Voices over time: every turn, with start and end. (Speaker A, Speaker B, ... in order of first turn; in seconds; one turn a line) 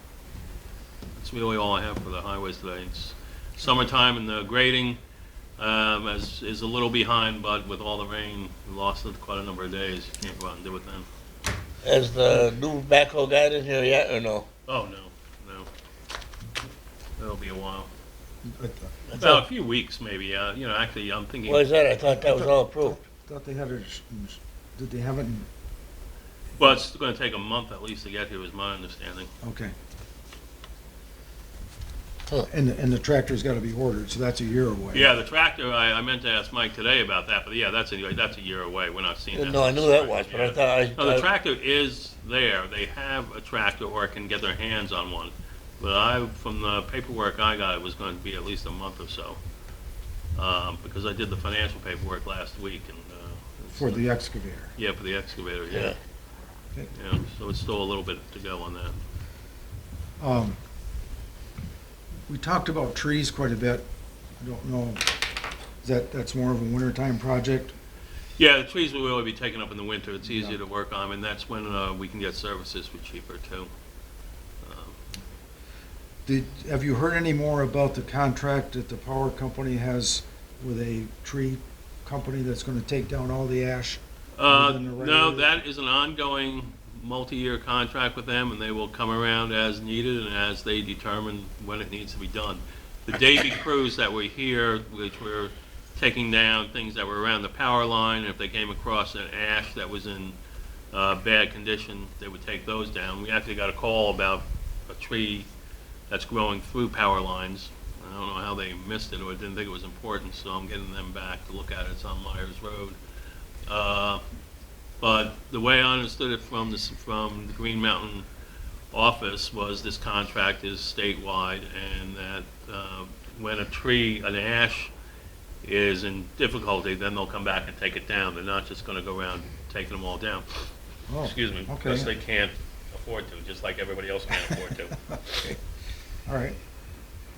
Speaker A: 1.1-5.0
Speaker A: 5.6-11.1
Speaker B: 11.8-14.5
Speaker A: 14.7-15.7
Speaker A: 17.2-17.9
Speaker C: 18.4-18.9
Speaker A: 19.1-21.7
Speaker B: 21.5-23.0
Speaker C: 22.0-25.5
Speaker A: 26.6-29.3
Speaker C: 29.4-29.7
Speaker C: 32.4-35.1
Speaker A: 34.9-49.4
Speaker B: 39.3-41.2
Speaker A: 50.4-54.0
Speaker C: 53.7-54.7
Speaker A: 54.8-56.0
Speaker B: 55.7-56.0
Speaker A: 56.9-59.0
Speaker C: 60.2-60.6
Speaker C: 62.3-63.8
Speaker C: 64.4-65.0
Speaker C: 65.8-67.7
Speaker A: 68.4-73.7
Speaker C: 70.2-70.6
Speaker A: 74.6-75.0
Speaker C: 76.2-85.6
Speaker A: 84.3-100.3
Speaker A: 100.9-105.5
Speaker A: 106.1-113.0
Speaker A: 113.7-114.2
Speaker A: 115.0-118.3
Speaker A: 118.9-124.9
Speaker A: 125.6-130.5
Speaker C: 131.1-132.1
Speaker A: 131.2-135.4
Speaker C: 135.2-135.6
Speaker C: 136.2-136.6